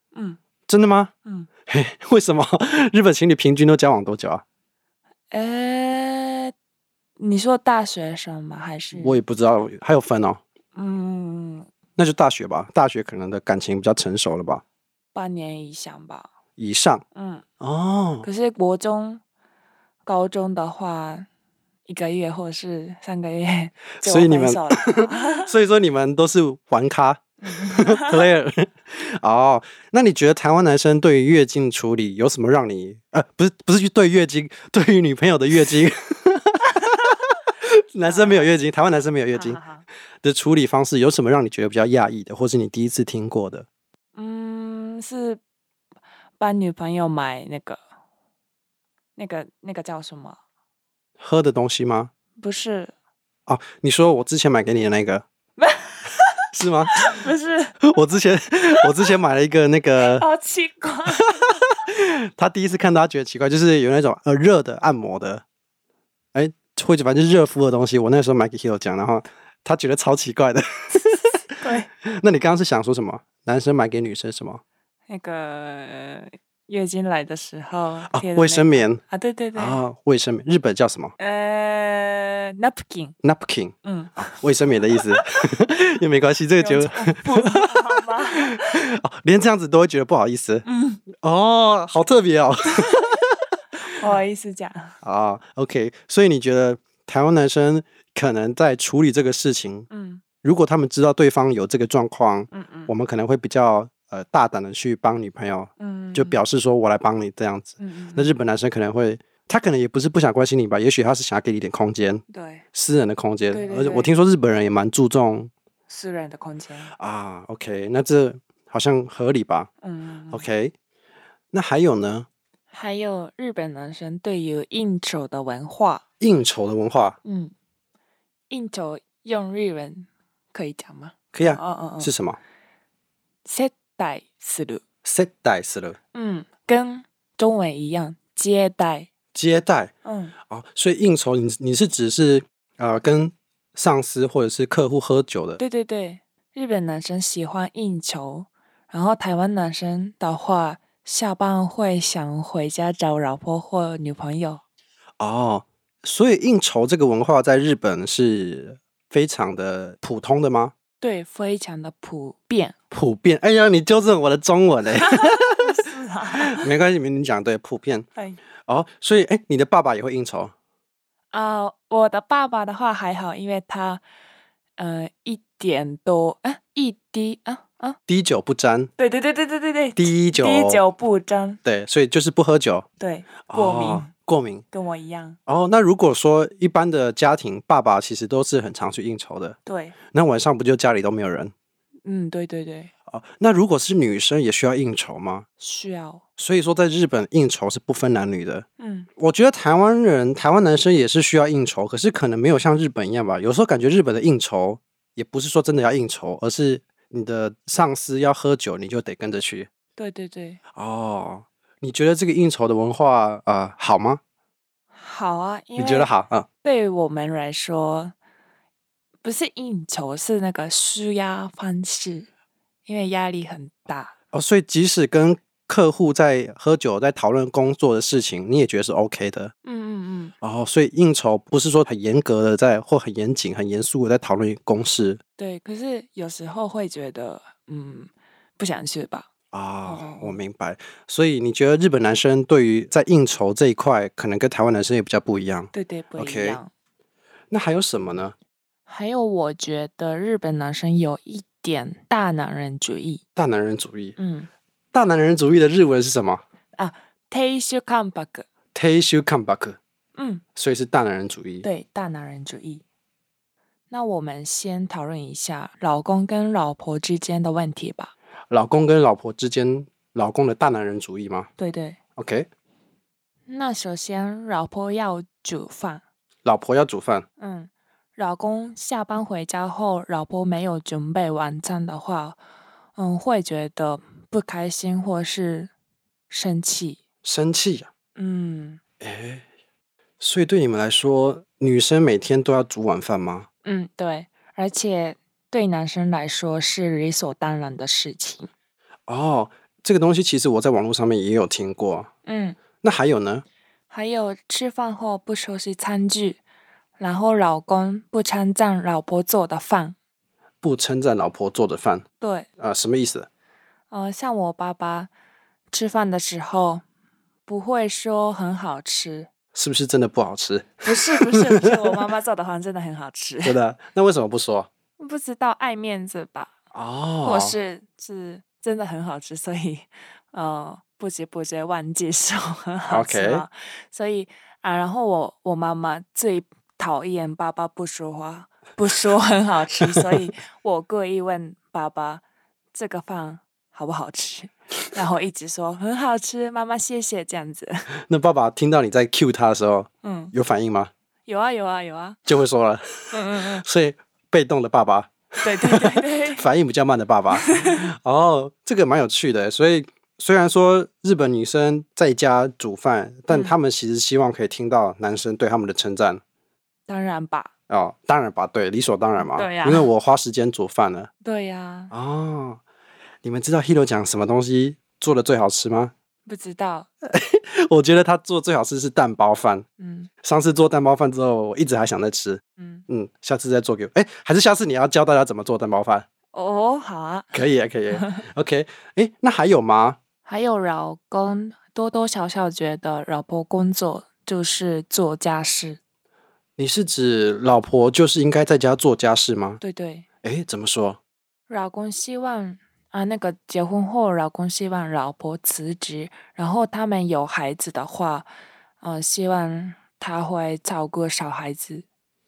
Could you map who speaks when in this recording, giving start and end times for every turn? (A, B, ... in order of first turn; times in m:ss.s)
0:00.7-0:01.1 A
0:01.7-0:04.4 A
0:05.3-0:06.5 B
0:07.2-0:09.2 B
0:09.0-0:10.4 A
0:10.8-0:11.7 B
0:12.0-0:14.6 A
0:15.1-0:16.3 B
0:16.6-0:17.0 A
0:17.2-0:17.4 B
0:17.6-0:18.3 A
0:18.2-0:19.2 B
0:20.1-0:21.3 B
0:21.9-0:25.5 B
0:24.0-0:39.6 A
0:27.4-0:28.2 B
0:38.1-0:38.5 B
0:39.3-0:39.9 B
0:40.2-0:43.7 A
0:44.2-0:45.4 B
0:46.4-0:47.8 B
0:49.2-0:50.4 B
0:51.2-0:52.1 A
0:52.4-0:52.9 B
0:53.5-0:55.2 A
0:55.6-0:56.3 B
0:56.5-0:57.3 A
0:56.9-0:57.8 B
0:57.8-1:00.3 A
1:00.0-1:01.6 B
1:01.9-1:05.4 A
1:06.3-1:11.4 A
1:11.6-1:11.9 B
1:12.0-1:14.6 A
1:15.1-1:19.8 B
1:18.1-1:19.0 A
1:19.6-1:21.2 A
1:21.2-1:23.2 B
1:23.2-1:30.7 A
1:23.8-1:24.4 B
1:26.6-1:28.8 B
1:30.6-1:31.0 B
1:31.2-1:33.4 A
1:32.8-1:33.2 B
1:33.8-1:35.0 B
1:35.0-1:39.9 A
1:39.9-1:40.2 B
1:40.4-1:52.2 A
1:42.5-1:42.9 B
1:45.8-1:46.4 B
1:47.8-1:48.4 B
1:52.3-1:52.6 B
1:52.8-1:55.5 A
1:53.5-1:54.1 B
1:55.9-1:56.9 B
1:57.0-1:59.7 A
1:59.8-2:00.5 B
2:00.3-2:00.7 A
2:01.5-2:02.3 A
2:02.7-2:06.0 B
2:06.2-2:07.2 A
2:07.2-2:07.5 B
2:08.5-2:12.1 B
2:11.3-2:12.4 A
2:13.4-2:14.8 B
2:15.0-2:16.0 A
2:16.1-2:19.1 B
2:19.3-2:19.9 A
2:20.0-2:20.3 B
2:20.5-2:25.6 A
2:25.6-2:34.6 B
2:35.2-2:40.7 A
2:41.0-2:42.8 B
2:42.9-2:45.6 A
2:45.0-2:46.7 B
2:46.4-2:48.1 A
2:48.7-2:50.5 A
2:51.3-2:54.0 B
2:54.8-2:58.0 B
2:58.1-2:58.9 A
2:59.0-3:01.6 B
3:00.0-3:00.8 A
3:01.6-3:02.9 A
3:03.0-3:04.1 B
3:03.5-3:04.6 A
3:04.7-3:05.4 B
3:05.5-3:09.6 A
3:09.7-3:10.0 B
3:10.1-3:11.5 A
3:12.1-3:12.9 B
3:13.1-3:15.4 A
3:15.6-3:16.2 B
3:16.4-3:18.6 A
3:18.8-3:19.1 B
3:19.2-3:29.7 A
3:30.0-3:30.6 B
3:30.8-3:34.2 A
3:35.0-3:36.1 B
3:35.8-3:36.5 A
3:36.6-3:38.1 B
3:39.2-3:42.3 B
3:42.9-3:44.1 B
3:44.3-3:49.5 A
3:49.6-3:50.3 B
3:50.4-3:55.2 A
3:55.4-3:59.3 B
3:59.5-4:06.6 A
3:59.9-4:00.4 B
4:05.7-4:06.7 B
4:07.5-4:08.4 A
4:08.9-4:13.2 B
4:13.4-4:14.2 A
4:14.2-4:14.5 B
4:14.9-4:16.4 A
4:16.8-4:18.5 B
4:18.8-4:19.8 A
4:20.2-4:20.4 B
4:20.6-4:21.7 A
4:21.6-4:22.8 B
4:23.9-4:28.1 B
4:28.5-4:31.5 A
4:31.6-4:32.0 B
4:32.2-4:32.5 A
4:33.5-4:36.0 B
4:36.4-4:37.3 A
4:37.4-4:42.4 B
4:43.0-4:45.7 B
4:46.3-4:47.0 B
4:47.2-4:47.9 A
4:48.2-4:48.8 B
4:49.0-4:49.4 A
4:50.2-4:53.5 A
4:53.6-4:58.5 B
4:59.1-5:02.1 A
5:02.3-5:02.6 B
5:02.8-5:03.4 A
5:03.9-5:06.4 B
5:07.0-5:10.0 B
5:10.6-5:12.0 A
5:12.2-5:12.5 B
5:12.6-5:13.3 A
5:13.9-5:15.1 B
5:15.7-5:16.8 B
5:17.5-5:19.3 B
5:19.6-5:22.1 A
5:20.8-5:23.6 B
5:23.4-5:24.7 A
5:25.0-5:26.5 B
5:26.7-5:27.6 A
5:27.2-5:47.9 B
5:32.9-5:33.4 A
5:48.1-5:50.9 A
5:50.0-5:50.3 B
5:51.3-5:52.2 B
5:52.3-6:06.2 A
5:53.1-5:53.6 B
5:55.4-5:56.5 B
5:57.3-5:57.8 B
6:03.3-6:03.6 B
6:06.9-6:07.5 B
6:07.7-6:11.1 A
6:09.2-6:09.9 B
6:11.2-6:11.9 B
6:11.9-6:12.6 A
6:13.2-6:15.9 A
6:16.3-6:16.9 B
6:17.0-6:19.7 A
6:19.8-6:20.1 B
6:20.2-6:26.1 A
6:22.6-6:22.8 B
6:26.3-6:28.2 B
6:27.3-6:30.0 A
6:30.3-6:35.8 B
6:36.6-6:39.6 A
6:39.6-6:40.0 B
6:40.2-6:41.0 A
6:41.5-6:48.3 B
6:48.8-6:51.8 B